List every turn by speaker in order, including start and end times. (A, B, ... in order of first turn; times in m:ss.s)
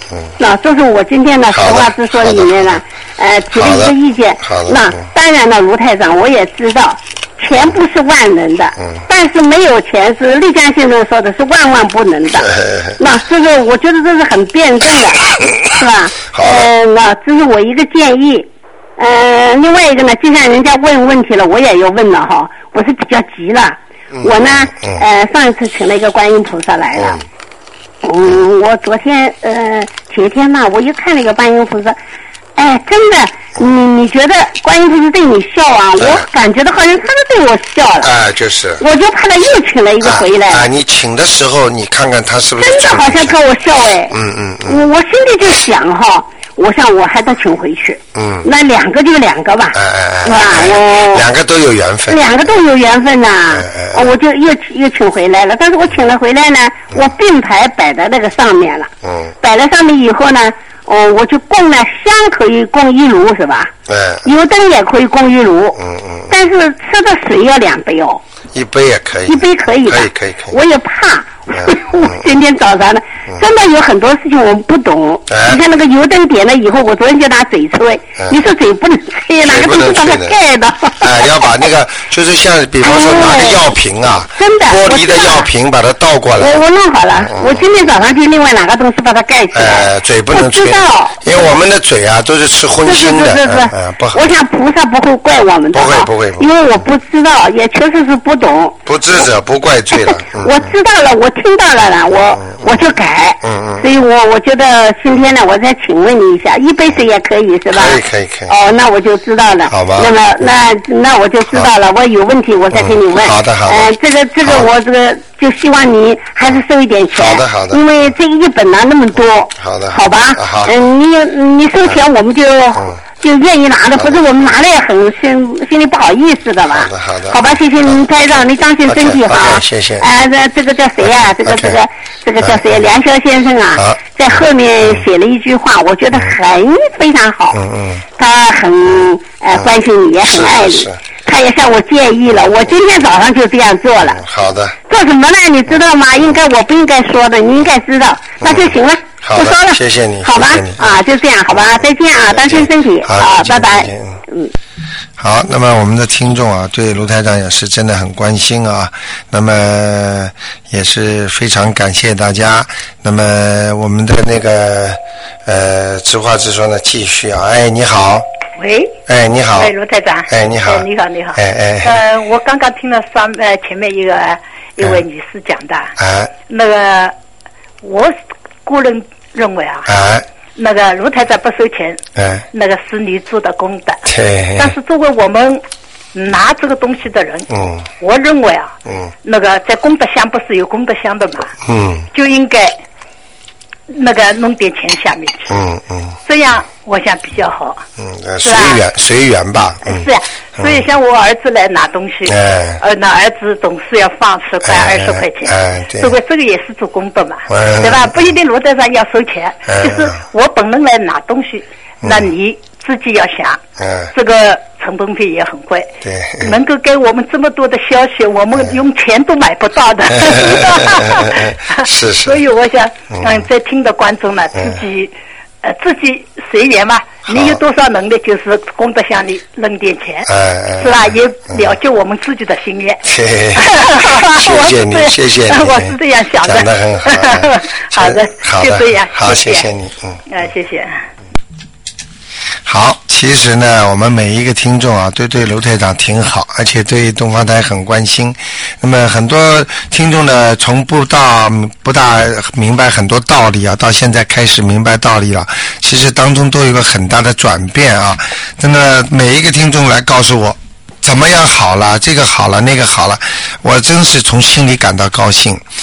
0:00.4-0:27.2 A
0:01.5-0:02.8 B
0:03.5-0:05.0 B
0:12.6-0:12.9 B
0:16.3-0:16.7 B
0:24.1-0:25.0 B
0:26.9-0:27.2 B
0:28.0-0:32.0 A
0:32.6-0:38.1 A
0:36.0-0:36.2 B
0:38.0-0:38.8 B
0:38.8-0:40.7 A
0:40.0-0:43.4 B
0:42.6-0:51.3 A
0:44.1-0:44.8 B
0:48.1-0:48.5 B
0:49.7-0:52.6 B
0:52.1-0:58.9 A
0:53.5-0:54.1 B
0:59.0-0:59.3 B
0:59.4-1:03.7 A
1:03.9-1:04.2 B
1:04.2-1:05.8 A
1:05.8-1:06.3 B
1:06.3-1:08.2 A
1:08.5-1:10.6 B
1:09.3-1:21.3 A
1:11.5-1:12.2 B
1:15.3-1:15.6 B
1:19.4-1:20.4 B
1:21.0-1:26.6 B
1:22.8-1:23.6 A
1:24.4-1:25.5 A
1:26.4-1:31.4 A
1:27.2-1:27.7 B
1:29.5-1:34.3 B
1:32.8-1:38.8 A
1:35.7-1:36.5 B
1:38.8-1:40.7 B
1:40.0-2:17.6 A
1:42.4-1:43.9 B
1:47.7-1:48.5 B
1:49.7-1:50.1 B
1:52.7-1:53.9 B
1:54.4-1:54.7 B
1:57.1-1:57.8 B
1:59.6-2:00.8 B
2:04.0-2:04.5 B
2:06.7-2:10.1 B
2:11.4-2:11.8 B
2:12.4-2:12.8 B
2:17.5-2:18.0 B
2:18.2-2:24.2 A
2:19.5-2:21.0 B
2:24.0-2:24.8 B
2:24.9-2:34.5 A
2:28.4-2:31.0 B
2:32.3-2:34.2 B
2:35.2-2:48.2 B
2:48.6-2:49.0 C
2:49.1-2:49.7 B
2:49.5-2:55.9 C
2:50.3-2:52.0 B
2:56.0-2:56.3 B
2:56.4-2:57.1 C
2:57.8-2:59.9 C
2:59.9-3:00.2 B
3:00.6-3:04.0 C
3:02.2-3:02.4 B
3:04.0-3:04.7 B
3:04.6-3:05.6 C
3:06.1-3:11.5 C
3:07.5-3:07.8 B
3:11.6-3:12.0 B
3:12.1-3:12.8 C
3:13.9-3:15.5 C
3:15.5-3:16.2 B
3:16.2-3:17.8 C
3:18.0-3:20.1 B
3:18.4-3:18.8 C
3:19.8-3:33.6 C
3:22.2-3:22.8 B
3:24.6-3:26.2 B
3:27.5-3:28.1 B
3:29.7-3:30.1 B
3:33.8-3:34.1 B
3:34.1-3:53.0 C
3:36.0-3:36.6 B
3:40.2-3:42.4 B
3:43.1-3:43.4 B
3:47.3-3:47.6 B
3:50.3-3:51.6 B
3:53.0-4:00.2 B
3:53.5-3:59.7 C
4:00.3-4:01.0 C
4:02.6-4:25.6 B